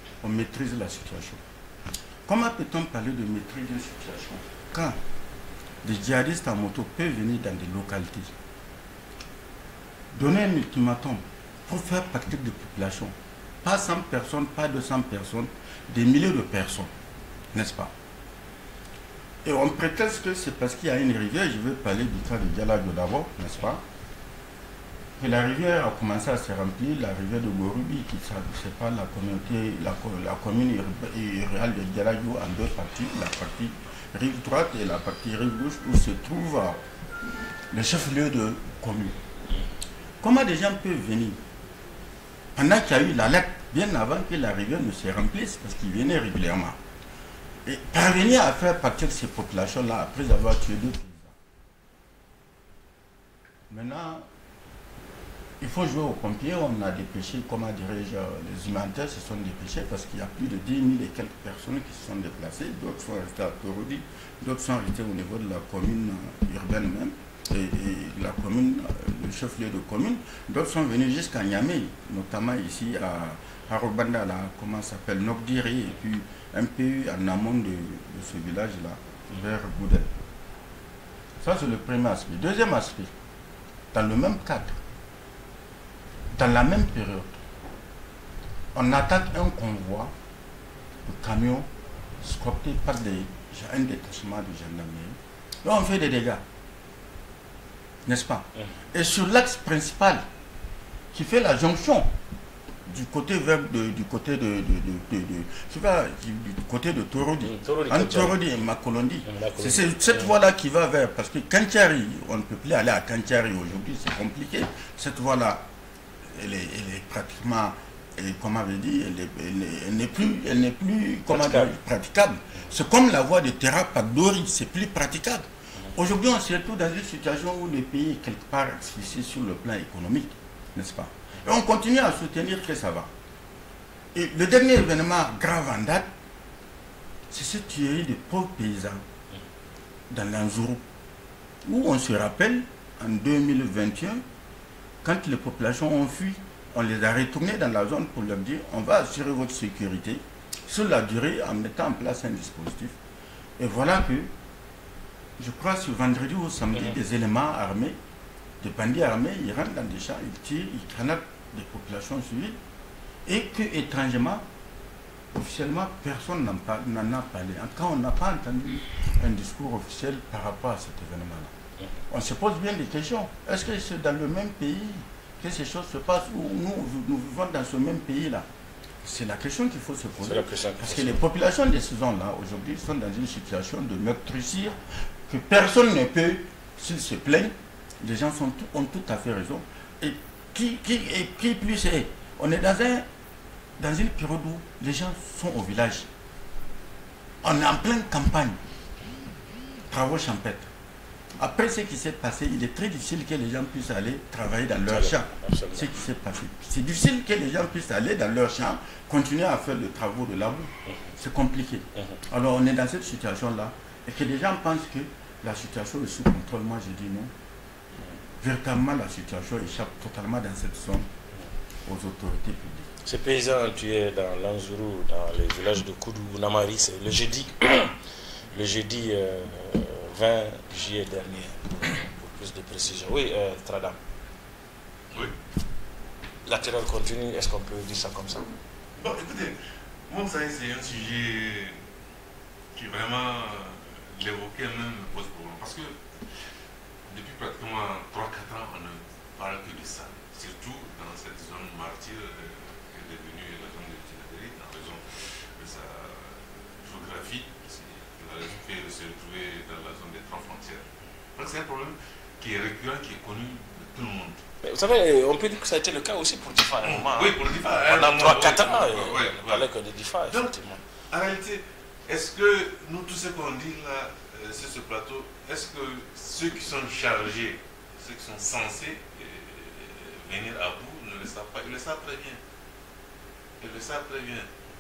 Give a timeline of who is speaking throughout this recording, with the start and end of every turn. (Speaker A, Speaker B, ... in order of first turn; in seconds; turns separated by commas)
Speaker A: 0.2-1.4, Speaker A: 2.3-5.0, Speaker A: 5.8-8.3, Speaker A: 10.1-16.9, Speaker A: 17.5-17.9, Speaker A: 19.4-23.8, Speaker A: 25.2-36.8, Speaker A: 37.7-39.2, Speaker A: 40.2-41.4, Speaker A: 42.5-46.8, Speaker A: 47.6-51.4, Speaker A: 53.7-54.3, Speaker A: 55.6-80.2, Speaker A: 81.4-83.1, Speaker A: 83.9-84.8, Speaker A: 86.3-87.4, Speaker A: 88.7-90.1, Speaker A: 91.0-96.4, Speaker A: 98.0-100.3, Speaker A: 101.1-102.1, Speaker A: 102.9-115.7, Speaker B: 107.4-108.4, Speaker B: 109.2-110.3, Speaker A: 116.2-133.1, Speaker B: 121.3-121.7, Speaker A: 134.1-136.1, Speaker A: 137.3-139.0, Speaker A: 140.1-140.8, Speaker A: 141.7-144.2, Speaker A: 145.0-153.0, Speaker A: 153.6-154.3, Speaker A: 155.4-158.0, Speaker A: 158.6-162.6, Speaker A: 163.3-164.5, Speaker A: 165.3-171.5, Speaker A: 172.1-178.5, Speaker A: 179.0-193.1, Speaker B: 180.2-181.2, Speaker A: 193.8-196.1, Speaker A: 197.4-198.6, Speaker A: 199.9-200.7, Speaker A: 201.4-217.3, Speaker B: 204.8-206.0, Speaker B: 210.8-211.2, Speaker B: 211.9-212.2, Speaker A: 218.4-221.1, Speaker A: 221.8-222.9, Speaker B: 223.1-228.0, Speaker B: 228.5-234.0, Speaker B: 236.4-238.6, Speaker C: 239.0-241.9, Speaker C: 242.7-246.5, Speaker C: 247.1-264.4, Speaker B: 264.6-270.8, Speaker C: 266.8-269.7, Speaker C: 270.3-270.5, Speaker C: 271.1-282.4, Speaker C: 283.6-284.5